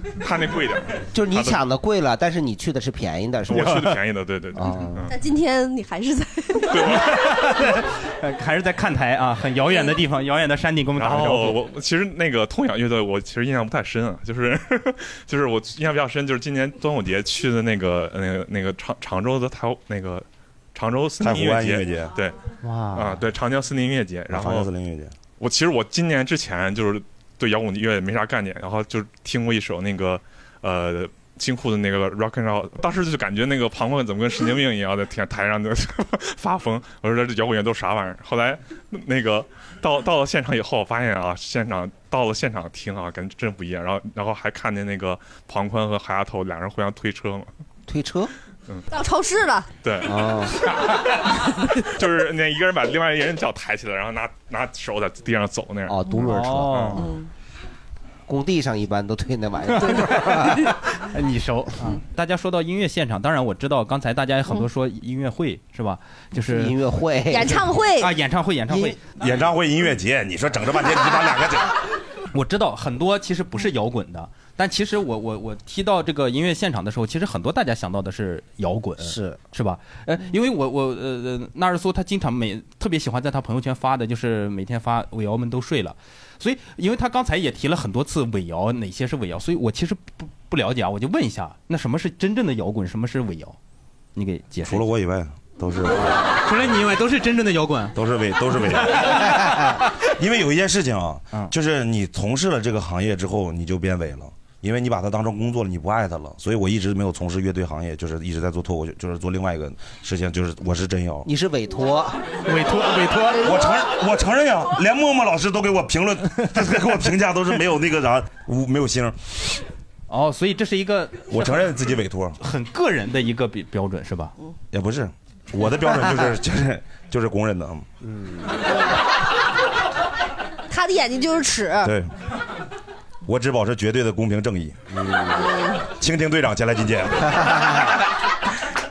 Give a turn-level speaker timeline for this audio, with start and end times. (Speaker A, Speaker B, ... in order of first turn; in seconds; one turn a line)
Speaker A: 0.2-1.6
Speaker B: 1.1-3.9
Speaker A: 3.5-5.1
Speaker C: 3.5-4.0
Speaker B: 4.5-5.1
Speaker D: 5.1-6.9
Speaker A: 6.7-7.5
Speaker C: 6.9-11.6
Speaker A: 11.0-22.4
Speaker E: 21.2-22.1
Speaker B: 22.6-23.1
Speaker A: 22.9-24.7
Speaker E: 24.3-25.1
Speaker A: 25.4-47.5
Speaker B: 47.9-48.3
Speaker D: 48.9-49.7
Speaker A: 49.8-51.3
Speaker B: 50.0-50.5
Speaker A: 52.0-56.0
Speaker B: 55.9-56.9
Speaker C: 56.2-57.1
Speaker A: 56.6-57.0
Speaker D: 57.0-57.2
Speaker B: 58.3-60.7
Speaker C: 59.8-66.8
Speaker B: 66.4-67.7
Speaker D: 67.3-68.1
Speaker C: 68.0-69.2
Speaker B: 68.7-69.0
Speaker E: 69.2-71.7
Speaker C: 72.3-93.6
Speaker B: 79.0-79.4
Speaker C: 94.2-94.9
Speaker E: 94.7-96.3
Speaker C: 96.4-98.0
Speaker E: 97.9-111.3
Speaker C: 98.9-99.3
Speaker B: 111.2-112.2
Speaker C: 112.4-113.6
Speaker E: 113.3-119.2
Speaker C: 120.1-121.3
Speaker E: 121.3-122.4
Speaker C: 122.4-124.3
Speaker E: 124.7-127.9
Speaker B: 128.1-128.4
Speaker D: 130.7-131.9
Speaker E: 131.8-132.1
Speaker E: 133.2-134.8
Speaker B: 134.9-135.5
Speaker D: 135.4-135.8
Speaker E: 135.9-137.7
Speaker B: 137.4-137.9